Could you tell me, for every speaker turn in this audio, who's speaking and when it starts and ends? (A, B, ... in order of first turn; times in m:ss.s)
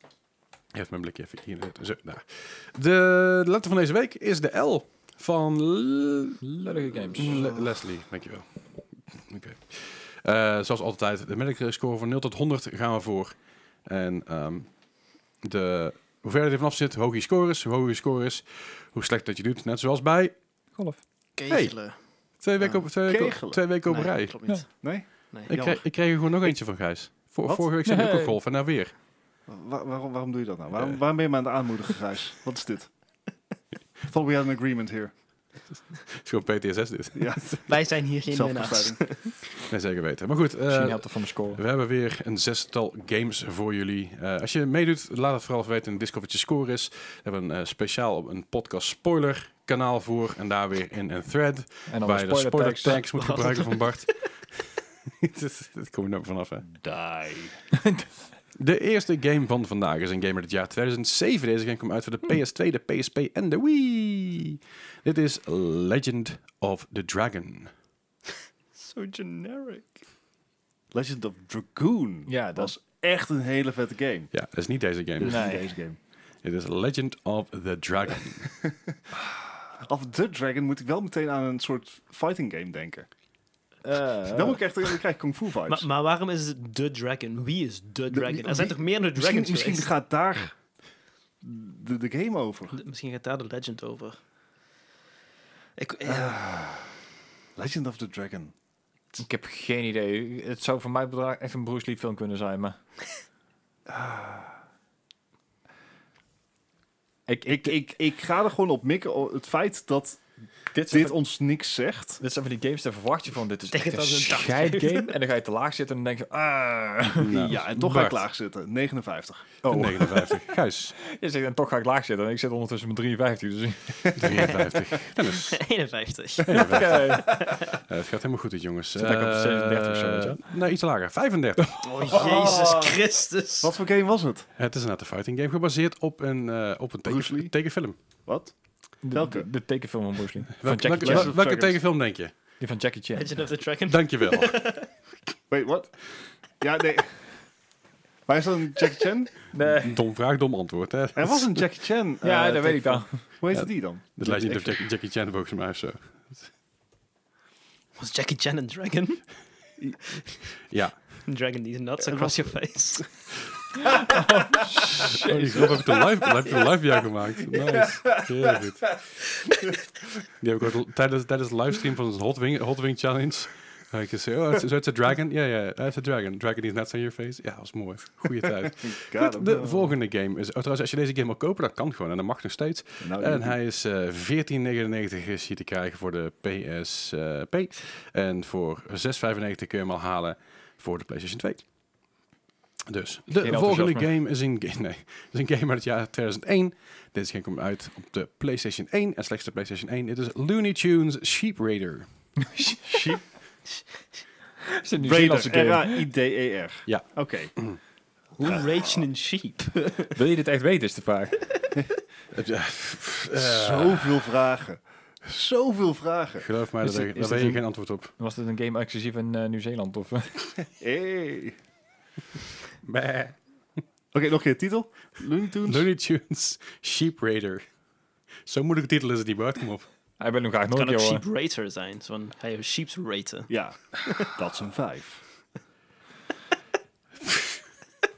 0:00.7-0:06.4 A
0:06.4-0:07.5 B
0:07.1-0:08.5 A
0:09.1-0:14.7 A
0:15.4-0:20.3 A
0:21.4-0:22.0 C
0:21.5-0:24.5 A
0:22.6-0:23.6 D
0:23.8-0:24.7 C
0:24.8-0:25.8 D
0:25.5-0:28.9 A
0:27.8-0:28.4 B
0:29.5-0:32.9 D
0:30.8-0:31.0 A
0:34.0-0:35.1 D
0:36.1-0:37.6 A
0:37.1-0:37.7 D
0:37.7-0:39.3 C
0:38.3-0:39.0 D
0:39.6-0:56.7 A
0:40.7-0:41.6 B
0:51.9-0:53.0 B
0:53.1-0:53.9 C
0:56.6-0:57.6 D
0:57.7-0:58.1 B
0:58.6-1:07.7 A
1:08.7-1:10.0 C
1:10.9-1:14.3 D
1:12.3-1:12.7 B
1:14.3-1:15.5 A
1:15.2-1:16.0 D
1:15.2-1:15.6 B
1:16.4-1:18.6 A
1:19.6-1:23.1 D
1:23.8-1:24.6 B
1:24.3-1:25.9 D
1:25.7-1:29.9 C
1:28.1-1:30.5 D
1:31.4-1:32.8 D
1:32.7-1:34.2 C
1:35.8-1:36.4 C
1:36.0-1:36.9 D
1:37.6-1:38.5 D
1:39.2-1:42.8 B
1:43.9-1:44.6 D
1:47.3-1:47.8 B
1:47.4-1:50.2 D
1:50.7-1:51.1 B
1:50.9-1:52.2 D
1:52.2-1:57.3 B
1:53.7-1:55.1 C
1:57.2-1:58.2 A
1:57.3-1:59.6 D
1:59.6-2:00.3 B
1:59.6-2:00.9 A
2:01.0-2:04.1 B
2:04.1-2:05.6 A
2:05.3-2:07.7 C
2:06.4-2:12.2 A
2:06.5-2:07.3 B
2:09.0-2:10.5 B
2:11.8-2:13.7 C
2:12.1-2:13.0 D
2:13.6-2:14.5 D
2:14.6-2:18.0 A
2:17.0-2:17.5 D
2:18.2-2:19.5 D
2:19.0-2:21.3 B
2:20.6-2:22.3 A
2:21.0-2:21.8 D
2:22.6-2:23.4 B
2:23.2-2:24.9 C
2:23.9-2:24.6 A
2:25.5-2:26.0 D
2:26.6-2:27.3 D
2:28.3-2:29.4 D
2:29.5-2:30.0 B
2:29.7-2:31.6 A
2:31.2-2:34.8 D
2:32.2-2:33.2 B
2:33.5-2:36.5 A
2:38.0-2:39.2 C
2:40.7-2:41.0 A
2:41.2-2:43.1 C
2:42.0-2:43.0 D
2:44.1-2:45.4 B
2:44.9-2:49.0 A
2:47.5-2:48.6 D
2:50.4-3:11.6 A
2:58.9-2:59.9 D
3:03.0-3:03.6 D
3:12.9-3:22.1 A
3:13.4-3:14.1 B
3:22.4-3:23.1 B
3:22.9-3:23.2 D
3:24.8-3:26.0 B
3:25.0-3:27.5 D
3:26.9-3:27.8 A
3:28.4-3:30.2 C
3:30.1-3:31.4 B
3:32.3-3:34.2 A
3:33.3-3:36.5 D
3:36.4-3:38.1 A
3:36.8-3:37.6 B
3:38.2-3:40.5 B
3:40.8-3:41.6 D
3:42.8-3:43.4 A
3:44.1-3:45.9 D
3:45.6-3:47.6 A
3:48.4-3:49.9 A
3:50.2-3:51.2 B
3:50.7-3:53.5 C
3:53.5-3:55.2 D